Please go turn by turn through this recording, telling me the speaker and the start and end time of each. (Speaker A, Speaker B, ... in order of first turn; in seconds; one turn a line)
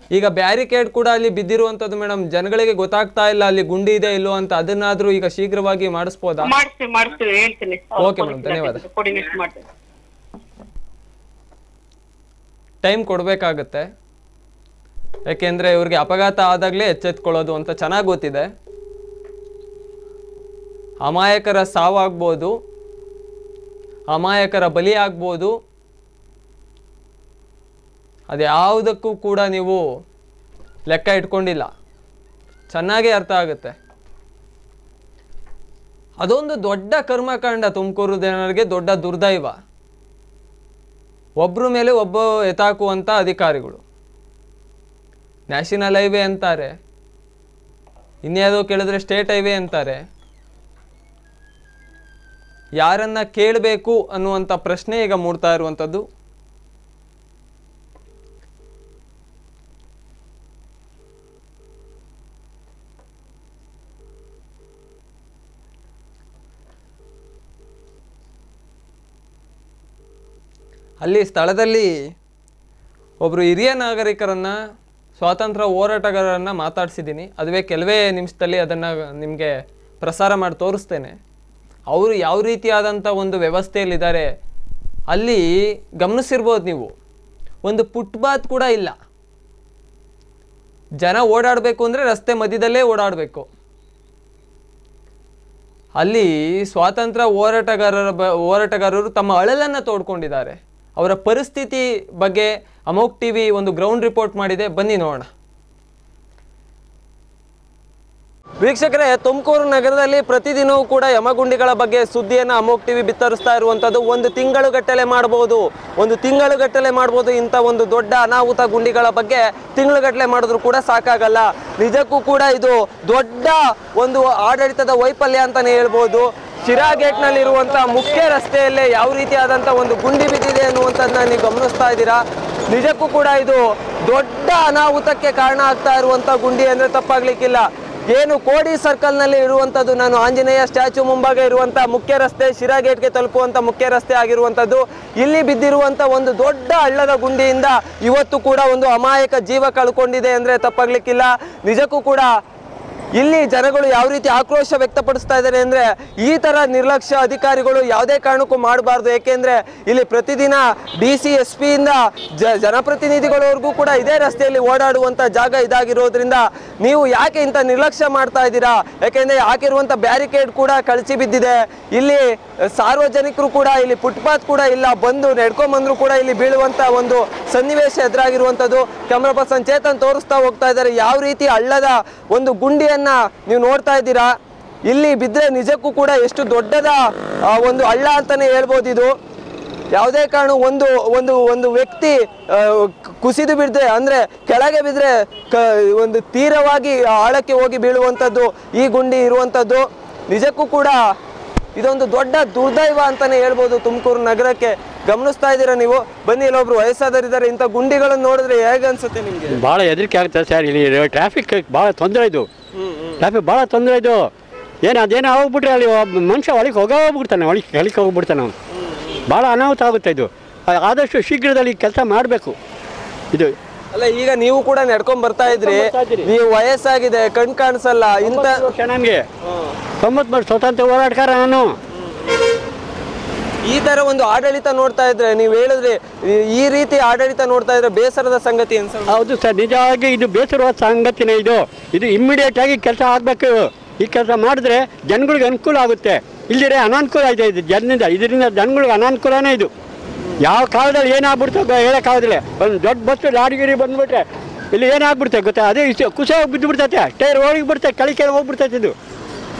Speaker A: 0.1-6.5
Speaker B: 6.4-9.6
Speaker A: 8.0-8.8
Speaker A: 12.8-13.9
Speaker A: 15.3-18.5
Speaker A: 21.0-22.5
Speaker A: 24.1-25.5
Speaker A: 28.3-29.8
Speaker A: 30.9-31.7
Speaker A: 32.7-33.8
Speaker A: 36.2-39.6
Speaker A: 41.4-43.8
Speaker A: 45.5-46.8
Speaker A: 48.2-50.0
Speaker A: 52.8-56.0
Speaker A: 71.0-72.0
Speaker A: 73.2-74.6
Speaker A: 75.2-81.1
Speaker A: 81.9-84.3
Speaker A: 85.1-85.5
Speaker A: 86.0-87.0
Speaker A: 87.6-89.0
Speaker A: 91.0-93.5
Speaker A: 96.0-105.3
Speaker A: 108.6-152.3
Speaker A: 153.2-184.3
Speaker A: 184.9-189.1
Speaker A: 189.9-201.0
Speaker A: 201.8-209.6
Speaker C: 209.5-212.5
Speaker A: 212.8-213.2
Speaker C: 213.2-214.3
Speaker C: 214.8-218.5
Speaker A: 218.8-219.2
Speaker C: 219.3-222.6
Speaker A: 223.9-228.7
Speaker C: 225.4-226.3
Speaker C: 228.2-229.2
Speaker A: 229.5-229.7
Speaker C: 230.0-231.7
Speaker A: 232.0-232.3
Speaker A: 233.7-239.3
Speaker C: 239.1-249.7
Speaker C: 250.4-258.9